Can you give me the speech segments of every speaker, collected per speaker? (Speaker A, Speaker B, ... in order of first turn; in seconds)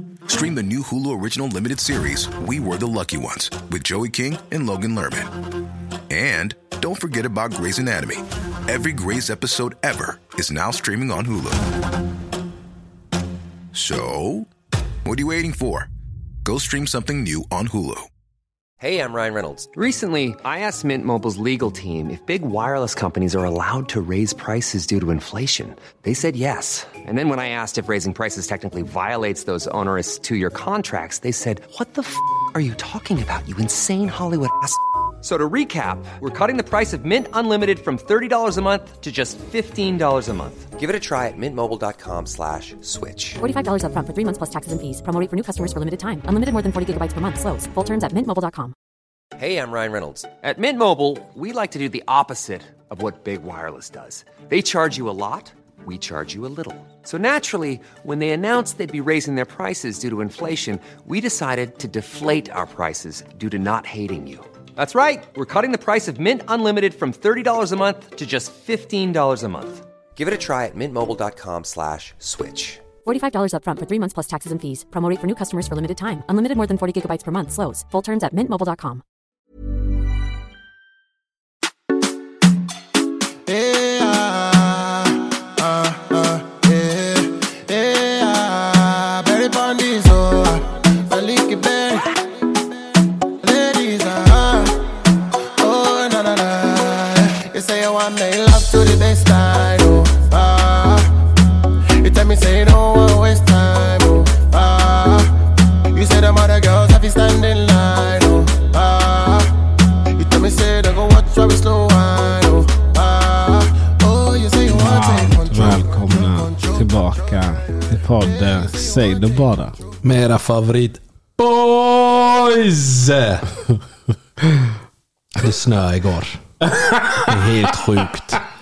Speaker A: 0.3-5.4, 6.1-11.7, 13.7-14.5, 15.1-15.9, 16.4-18.1
Speaker B: 18.8-43.4, 49.4-72.8
Speaker C: 43.4-48.7, 73.0-79.0
Speaker D: 83.5-92.2, 93.4-94.8, 95.6-101.1, 102.0-105.3, 105.9-109.5, 110.2-117.2, 118.2-119.4
Speaker E: 114.7-119.8, 126.7-127.4
Speaker F: 120.0-123.5, 125.4-126.4, 127.2-128.4